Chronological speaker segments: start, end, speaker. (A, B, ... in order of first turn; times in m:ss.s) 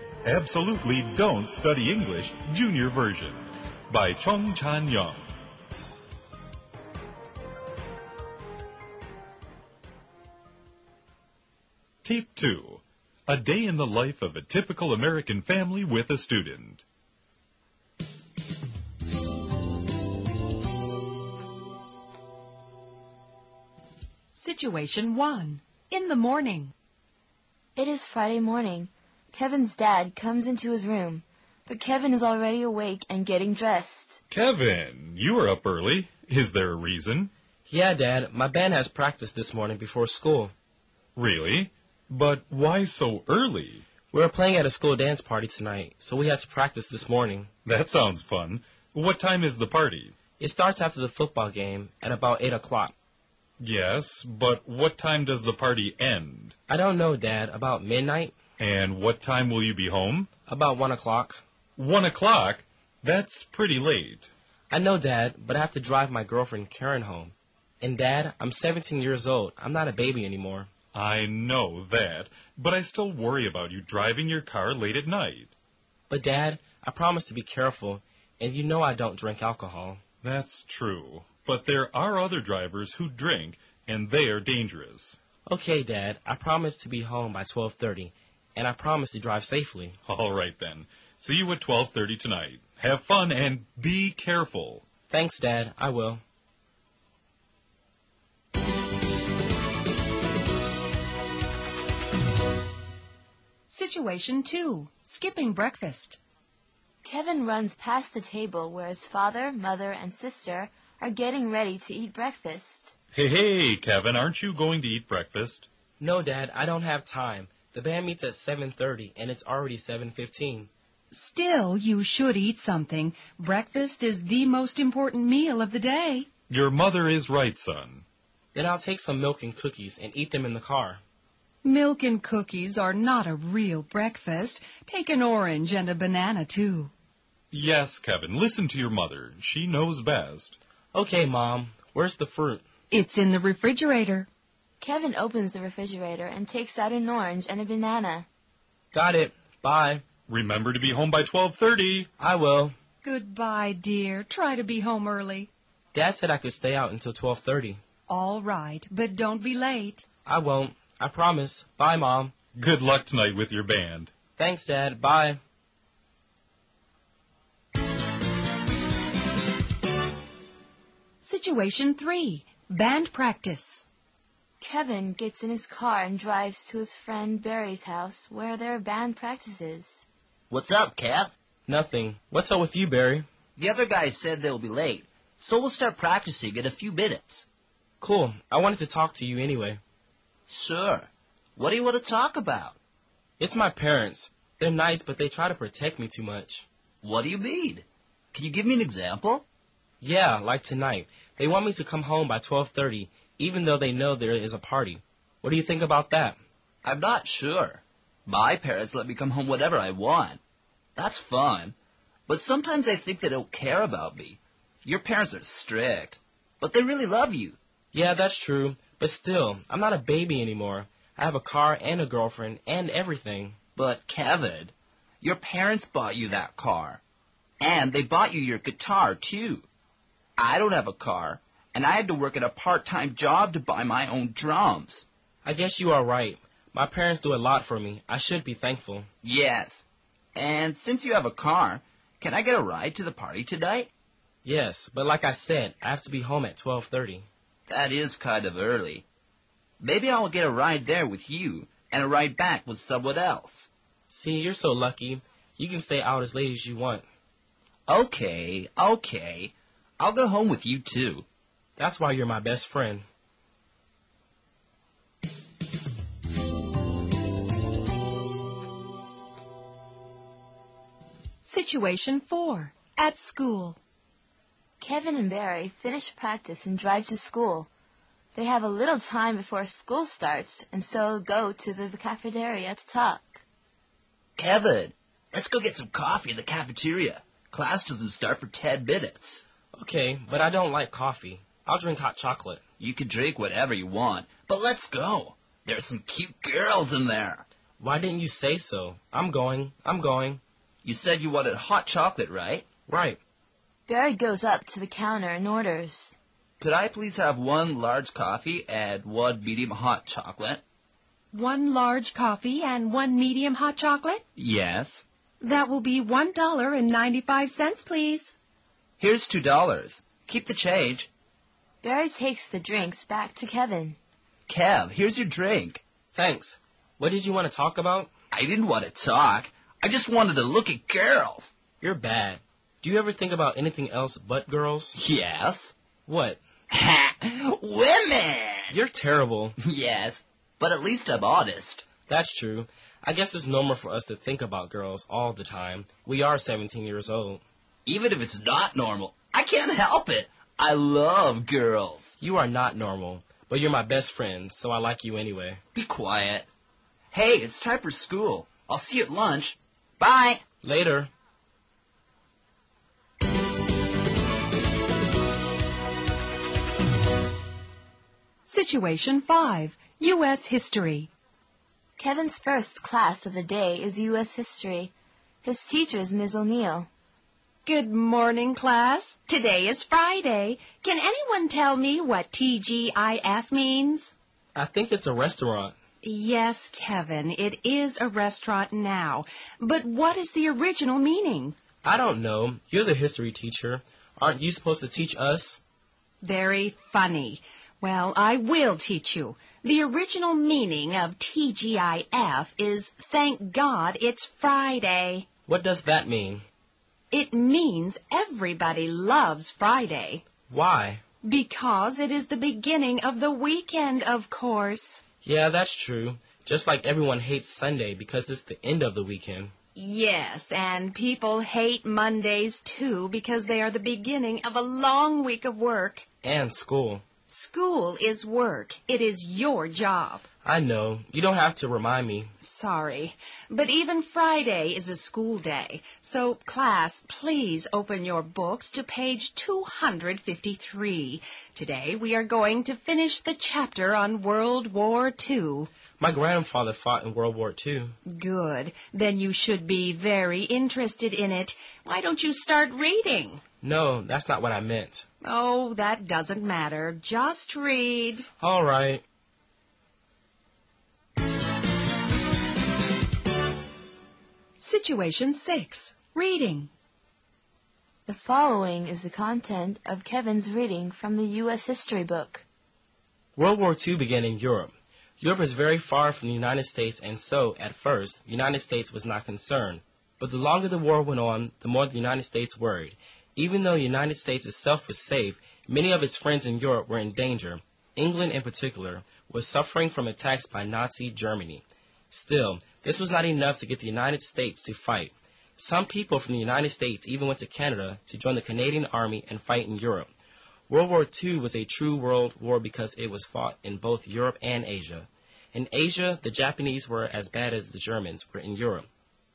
0:00.2-0:05.2 A
0:12.0-0:16.8 A
0:24.4-0:26.7 B
0:27.8-0:34.2 C
0:34.3-0:37.3 A
0:37.7-0:40.5 D
0:41.2-0:43.9 A
0:44.1-0:47.5 D
0:47.6-0:50.1 A
0:50.4-0:52.9 D
0:53.6-0:56.5 A
0:56.7-0:58.4 D
0:58.6-1:00.3 A
1:00.5-1:01.4 D
1:01.8-1:04.3 A
1:04.7-1:10.7 D
1:10.9-1:15.5 A
1:16.1-1:20.0 D
1:20.2-1:25.2 A
1:25.5-1:30.0 D
1:30.1-1:34.8 A
1:35.1-1:36.2 D
1:43.7-1:46.2 B
1:47.0-1:52.9 C
1:53.2-1:55.7 A
1:56.0-2:00.7 D
2:01.1-2:06.3 B
2:06.5-2:08.0 A
2:08.5-2:11.0 D
2:11.6-2:16.9 B
2:17.5-2:20.6 A
2:20.9-2:22.6 D
2:22.9-2:24.3 B
2:24.8-2:28.3 C
2:28.9-2:30.0 D
2:30.3-2:32.1 A
2:32.2-2:32.7 D
2:33.0-2:35.5 B
2:35.9-2:37.8 D
2:38.1-2:40.0 B
2:40.3-2:42.3 D
2:42.6-2:44.1 A
2:44.4-2:45.4 D
2:51.2-2:53.9 B
2:54.6-3:00.0 C
3:00.5-3:01.3 E
3:01.7-3:03.3 D
3:03.6-3:07.5 E
3:08.0-3:09.8 D
3:10.5-3:12.8 E
3:13.4-3:16.7 D
3:17.0-3:19.4 E
3:20.0-3:26.4 D
3:26.8-3:30.4 E
3:31.0-3:31.8 E
3:32.3-3:37.6 E
3:37.9-3:43.6 D
3:43.8-3:47.0 E
3:47.6-3:49.7 E
3:50.4-3:55.1 E
3:55.4-3:59.1 D
3:59.2-4:03.9 E
4:04.4-4:07.3 D
4:07.7-4:09.1 E
4:09.8-4:13.7 E
4:14.1-4:17.0 D
4:17.9-4:21.3 E
4:21.8-4:23.0 D
4:31.5-4:33.8 B
4:34.8-4:37.7 C
4:38.4-4:43.4 C
4:44.4-4:49.4 E
4:49.8-4:52.6 D
4:52.8-4:57.4 E
4:57.8-5:00.4 D
5:00.8-5:02.7 E
5:02.9-5:03.2 D
5:03.9-5:06.2 C
5:06.6-5:10.6 E
5:11.3-5:14.2 B
5:14.4-5:15.0 E
5:15.4-5:18.3 B
5:19.0-5:21.1 E
5:21.8-5:24.0 C
5:24.5-5:25.8 E
5:26.1-5:28.1 D
5:28.3-5:31.5 E
5:31.8-5:35.0 D
5:35.0-5:35.7 E
5:36.1-5:36.4 D
5:36.7-5:38.8 E
5:38.7-5:39.6 D
5:39.6-5:41.9 E
5:42.1-5:47.4 D
5:47.9-5:52.1 E
5:52.2-5:55.6 D
5:55.8-5:56.5 E
5:57.1-6:00.4 E
6:00.6-6:01.1 D
6:08.5-6:11.1 B
6:12.0-6:14.9 C
6:15.4-6:16.9 C
6:17.6-6:24.1 B
6:24.6-6:25.8 D
6:26.0-6:31.6 B
6:31.8-6:35.6 D
6:36.2-6:45.3 B
6:45.5-6:46.4 D
6:47.1-6:50.2 B
6:50.5-6:51.0 D
6:51.2-6:55.0 B
6:55.2-6:59.5 D
6:59.8-7:06.0 B
7:06.2-7:07.0 D
7:07.3-7:10.3 B
7:10.4-7:12.3 D
7:12.4-7:25.7 B
7:26.0-7:28.0 D
7:28.1-7:33.4 B
7:33.6-7:35.1 D
7:35.2-7:38.3 B
7:38.4-7:39.0 D
7:44.6-7:46.7 B
7:48.1-7:52.4 C
7:53.4-8:20.1 D
8:20.7-8:28.9 D